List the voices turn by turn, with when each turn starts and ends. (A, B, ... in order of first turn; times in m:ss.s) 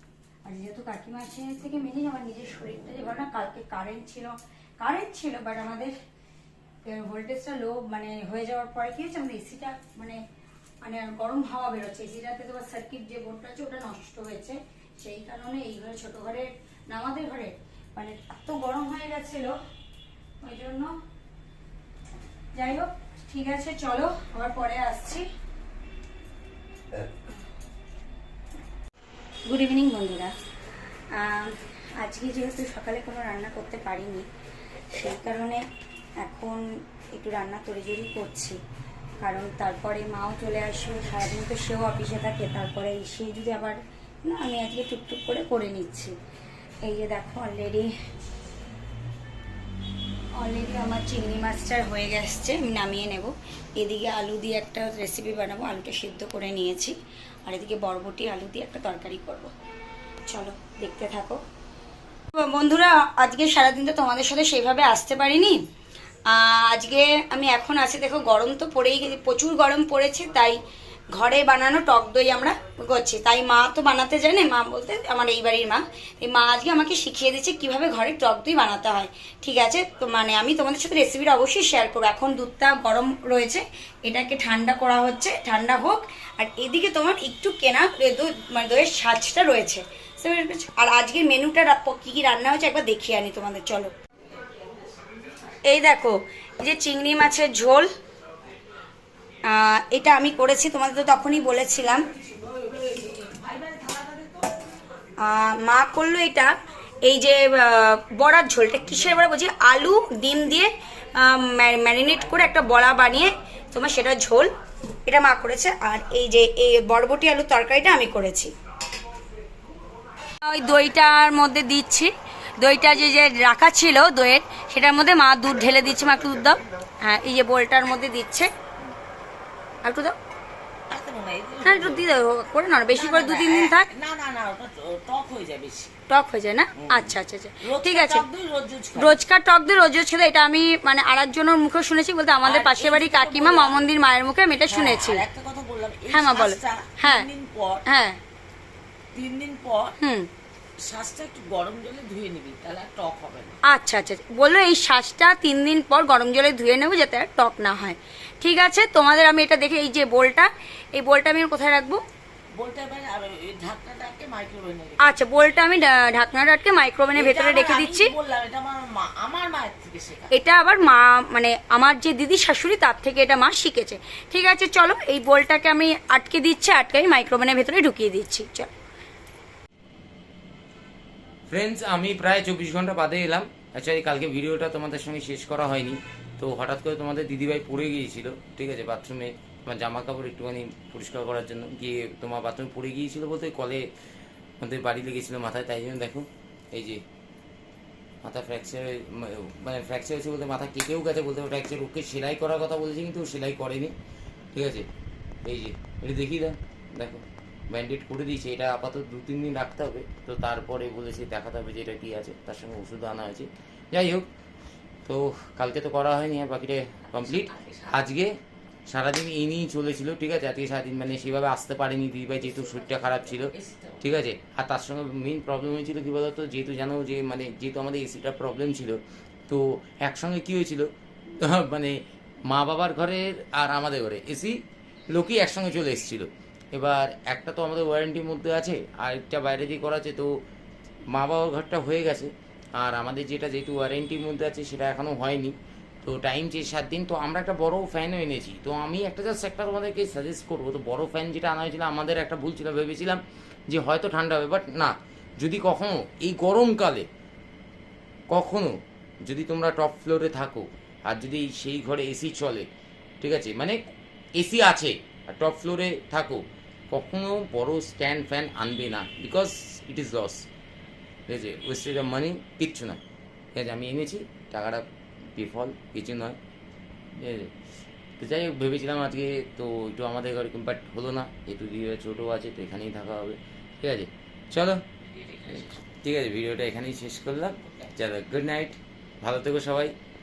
0:00.4-0:06.0 A
0:06.8-0:10.2 A
0:10.8-0:19.6 A
0:20.4-0:20.9 A
0:22.6-0:25.2 A
0:29.5-0:30.3 A
0:31.1-0:34.3 A
0:34.9-0:35.6 A
0:36.2-0:36.6 A
0:37.2-0:38.6 A
0:39.2-0:46.1 A
0:46.8-0:47.9 A
0:50.4-0:57.0 A
0:57.5-0:59.5 A
1:00.3-1:01.4 A
1:02.4-1:05.6 A
1:06.3-1:10.6 A
1:11.1-1:33.9 A
1:34.5-1:35.0 B
1:35.6-1:37.9 A
1:39.5-1:42.1 A
1:42.1-1:44.5 B
1:45.2-1:54.5 A
1:55.1-1:58.5 A
2:00.5-2:08.5 A
2:09.8-2:10.2 A
2:10.9-2:12.1 B
2:11.6-2:13.9 A
2:12.9-2:15.9 B
2:16.1-2:18.3 A
2:16.8-2:19.2 B
2:19.0-2:25.2 A
2:22.4-2:23.8 B
2:24.7-2:27.8 B
2:26.1-2:27.3 A
2:27.8-2:28.2 A
2:29.1-2:30.0 B
2:30.0-2:30.3 A
2:30.8-2:33.6 B
2:33.6-2:42.0 A
2:42.6-2:45.1 B
2:45.0-2:48.1 A
2:47.1-2:50.3 B
2:50.3-2:58.7 A
3:01.5-3:13.8 C
3:14.6-3:17.0 C
3:18.2-3:24.0 C
3:24.6-3:24.9 C
3:25.4-3:34.3 C
3:35.1-3:38.4 C
3:37.2-3:37.9 B
3:38.9-3:54.6 C
3:42.4-3:44.1 B
3:55.1-4:00.3 C
4:01.1-4:17.1 C
4:18.3-4:18.7 C
4:19.2-4:22.7 C
4:23.2-4:23.8 C
4:24.4-4:30.5 C
4:31.3-4:33.0 C
4:33.6-4:34.8 C
4:35.4-4:36.4 C
4:37.2-4:37.5 C
4:38.2-4:44.8 C
4:45.1-4:45.8 B
4:45.5-4:49.9 C